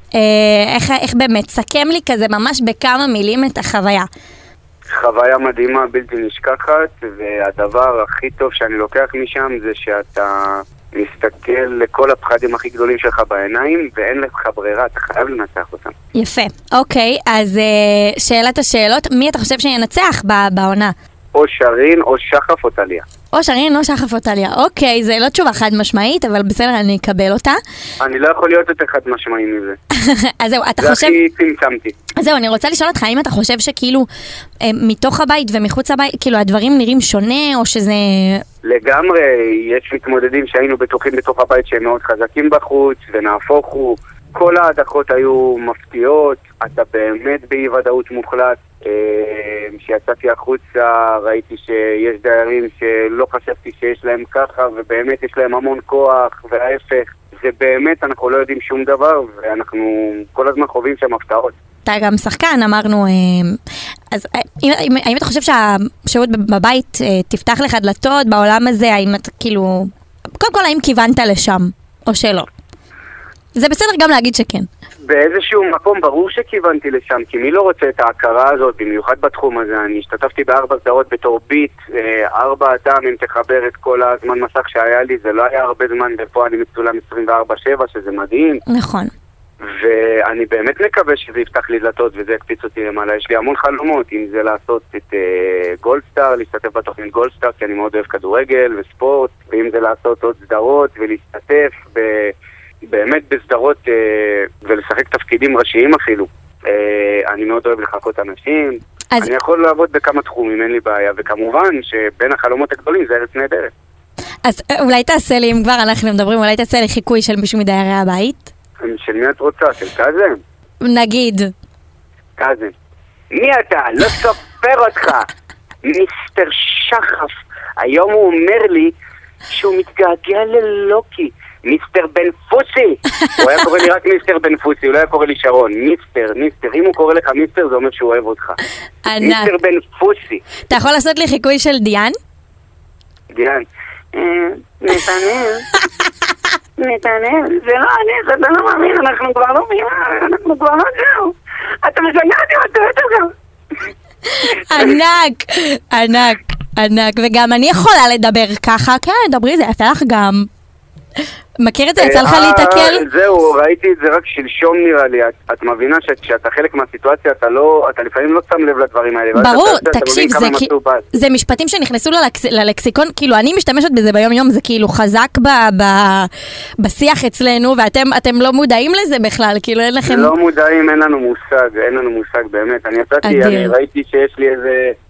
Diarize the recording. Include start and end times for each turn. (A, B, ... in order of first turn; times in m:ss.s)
0:00.1-0:04.1 A
0:04.9-0:15.9 B
0:16.1-0:20.9 A
0:21.4-0:23.0 B
0:23.3-0:27.6 A
0:28.0-0:29.8 B
0:29.9-0:31.2 A
0:30.8-0:31.9 B
0:32.2-0:34.1 A
0:34.6-0:38.4 A
0:38.6-1:01.5 B
1:01.9-1:03.6 A
1:04.1-1:12.5 A
1:13.5-1:14.7 A
1:15.1-1:28.6 B
1:28.7-1:29.1 A
1:29.6-1:42.4 B
1:42.9-1:53.7 B
1:54.4-1:58.5 A
1:58.8-2:00.4 B
2:00.8-2:01.5 A
2:02.4-2:02.7 B
2:03.3-2:05.3 B
2:05.8-2:08.9 B
2:09.5-2:18.6 B
2:19.0-2:19.5 A
2:19.2-2:20.4 B
2:20.7-2:22.2 A
2:23.3-2:25.7 B
2:26.8-2:33.3 B
2:34.3-2:40.5 A
2:41.6-2:43.0 A
2:42.0-2:51.0 B
2:49.4-3:00.3 A
3:00.0-3:05.0 B
3:03.2-3:03.7 A